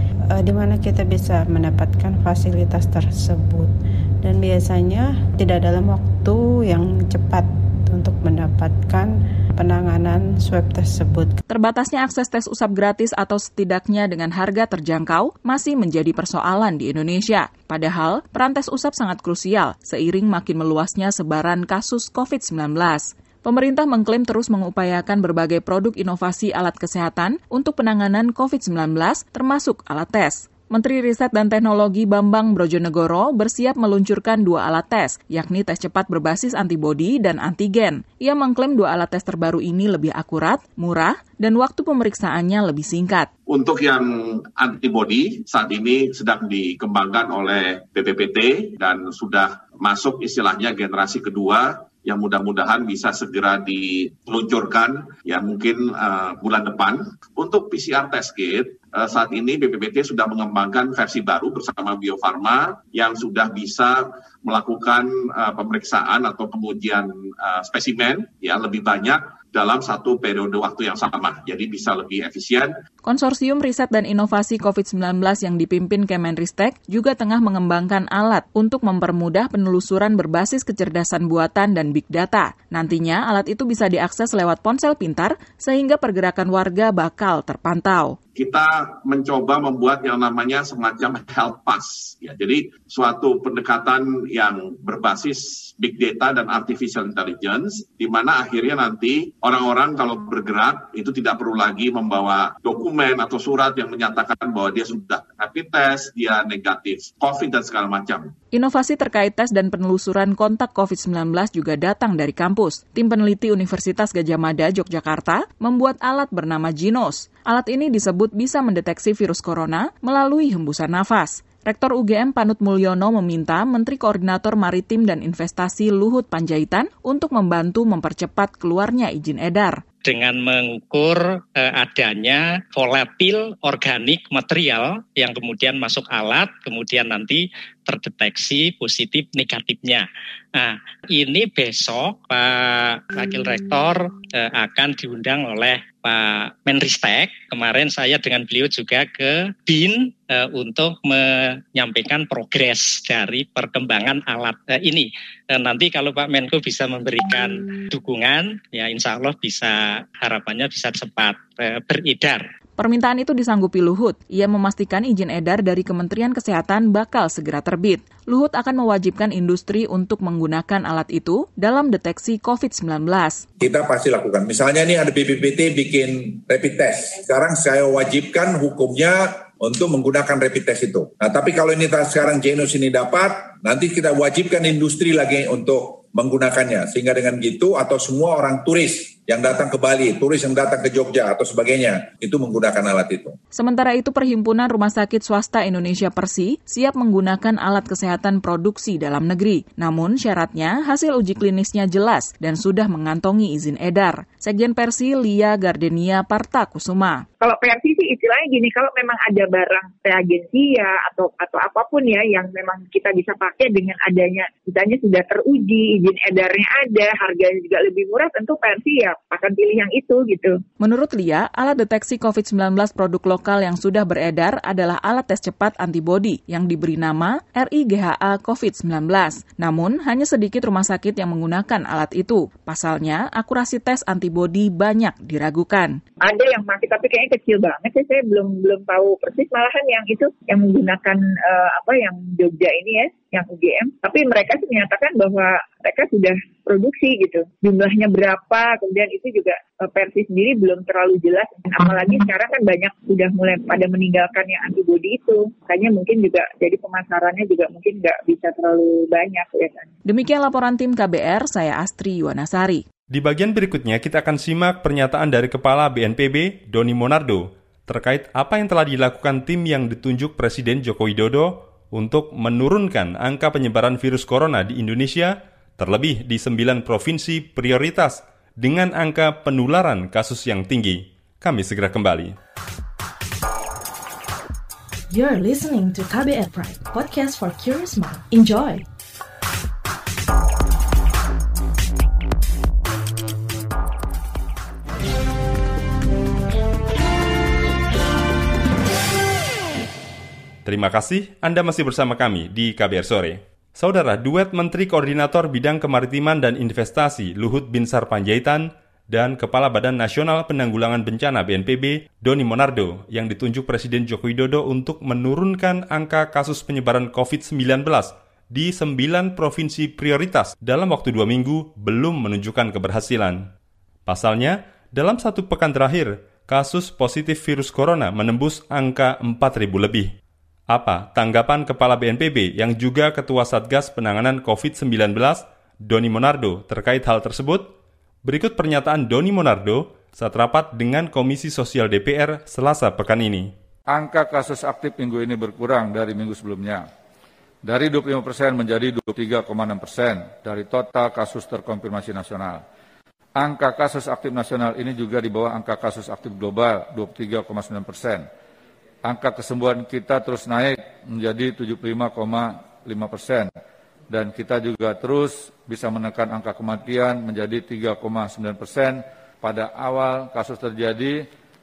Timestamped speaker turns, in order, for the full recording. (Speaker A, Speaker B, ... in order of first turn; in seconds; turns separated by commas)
Speaker A: 0.3-11.4, Speaker B: 11.5-43.3, Speaker C: 43.5-72.7, Speaker B: 73.0-88.2, Speaker C: 88.3-108.3, Speaker B: 108.5-129.8, Speaker D: 130.0-162.4, Speaker B: 162.8-173.4, Speaker E: 173.6-193.4, Speaker B: 193.5-207.2, Speaker F: 207.4-220.6, Speaker B: 220.8-236.0, Speaker F: 236.2-259.9, Speaker B: 260.1-262.9, Speaker G: 263.1-282.4, Speaker H: 285.1-288.9, Speaker G: 300.6-323.5, Speaker G: 324.1-330.1, Speaker G: 330.7-337.7, Speaker G: 338.2-343.5, Speaker I: 343.9-346.9, Speaker I: 347.6-352.6, Speaker I: 353.4-358.3, Speaker I: 359.1-363.5, Speaker I: 364.1-371.2